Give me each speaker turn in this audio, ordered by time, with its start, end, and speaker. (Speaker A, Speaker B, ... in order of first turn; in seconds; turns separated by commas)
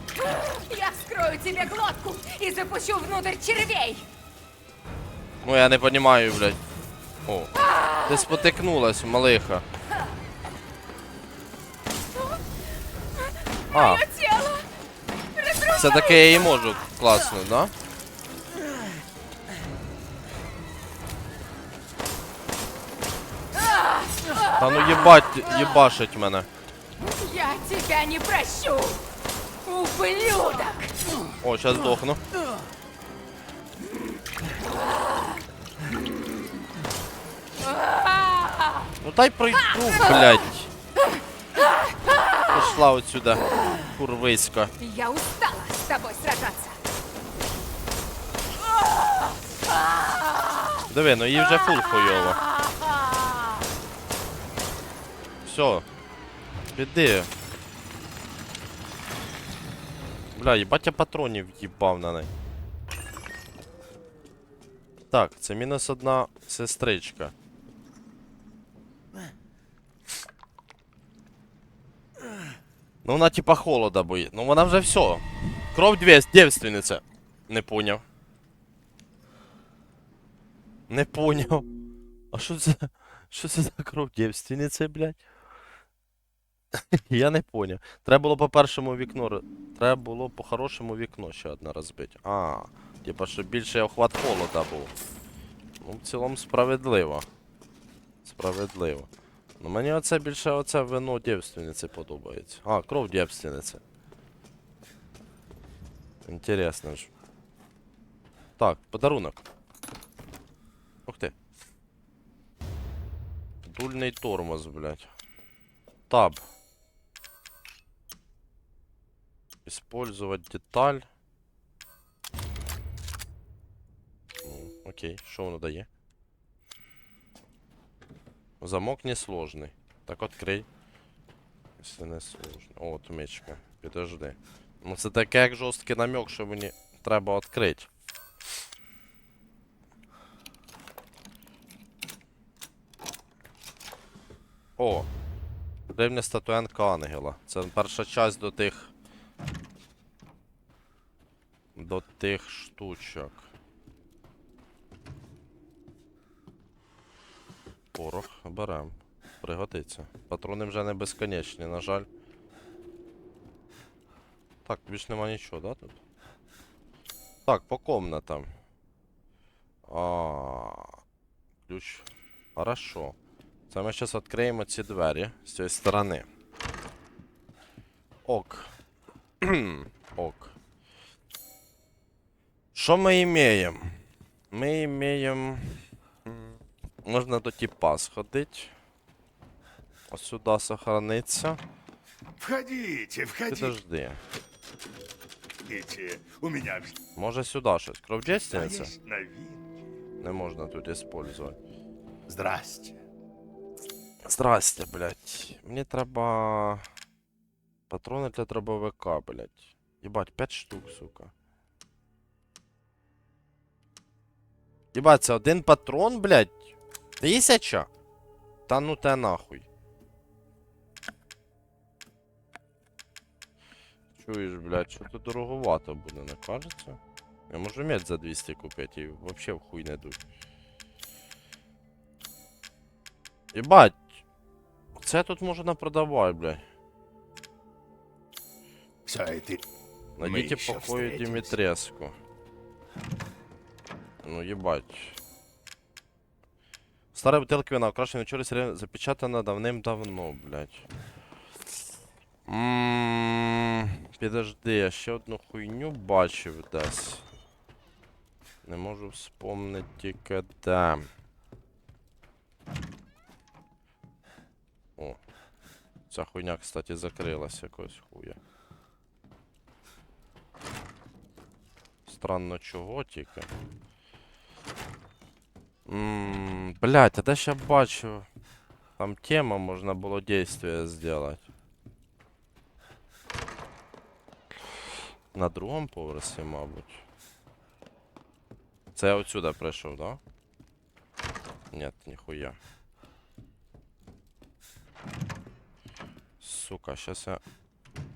Speaker A: 0.2-4.1, Speaker B: 5.4-6.6, Speaker B: 7.3-9.7, Speaker A: 7.7-8.1, Speaker A: 13.6-14.7, Speaker B: 13.7-14.1, Speaker A: 15.3-16.5, Speaker B: 15.6-17.7, Speaker A: 24.0-24.3, Speaker B: 24.5-26.5, Speaker A: 27.0-29.1, Speaker A: 29.6-31.0, Speaker B: 31.4-32.2, Speaker A: 35.0-35.4, Speaker A: 36.1-36.4, Speaker A: 37.6-38.9, Speaker B: 39.0-40.7, Speaker B: 42.5-44.7, Speaker A: 44.8-46.8, Speaker A: 49.0-49.3, Speaker A: 49.9-50.8, Speaker B: 50.9-52.4, Speaker A: 52.7-53.5, Speaker B: 55.5-55.9, Speaker B: 56.8-57.3, Speaker B: 60.4-62.3, Speaker B: 65.1-67.3, Speaker B: 73.0-78.0, Speaker B: 80.9-81.7, Speaker B: 82.3-85.2, Speaker B: 86.7-94.9, Speaker B: 95.8-97.3, Speaker B: 98.2-103.8, Speaker B: 106.2-107.1, Speaker B: 108.6-109.4, Speaker B: 111.1-111.3, Speaker B: 113.6-115.1, Speaker B: 116.1-116.5, Speaker B: 119.7-121.1, Speaker B: 124.4-125.9, Speaker B: 128.6-130.7, Speaker B: 131.8-137.9, Speaker B: 144.8-145.1, Speaker B: 145.9-148.9, Speaker B: 151.8-153.5, Speaker B: 157.9-162.1, Speaker B: 164.7-166.0, Speaker B: 167.5-168.5, Speaker B: 169.9-171.0, Speaker B: 171.7-173.2, Speaker B: 173.7-176.3, Speaker B: 178.3-178.7, Speaker B: 179.4-180.6, Speaker B: 182.7-185.8, Speaker B: 187.1-188.7, Speaker B: 190.1-191.6, Speaker C: 192.4-193.7, Speaker B: 193.5-194.2, Speaker C: 195.7-197.0, Speaker B: 197.2-198.9, Speaker C: 198.5-199.7, Speaker B: 200.2-201.6, Speaker C: 202.3-203.0, Speaker B: 204.2-206.8, Speaker B: 207.9-211.3, Speaker B: 214.9-217.9, Speaker B: 218.7-219.7, Speaker B: 224.2-230.2, Speaker B: 233.5-234.2, Speaker B: 235.0-236.6, Speaker C: 239.1-239.7, Speaker B: 240.2-242.2, Speaker C: 240.2-241.5, Speaker B: 244.2-245.2, Speaker B: 247.1-250.9, Speaker B: 252.5-257.2, Speaker B: 258.6-261.1, Speaker B: 266.1-268.4, Speaker B: 272.1-273.5, Speaker B: 275.9-278.3, Speaker B: 279.0-281.5, Speaker B: 285.3-287.0, Speaker B: 288.9-290.2, Speaker B: 291.7-292.6, Speaker B: 296.4-297.4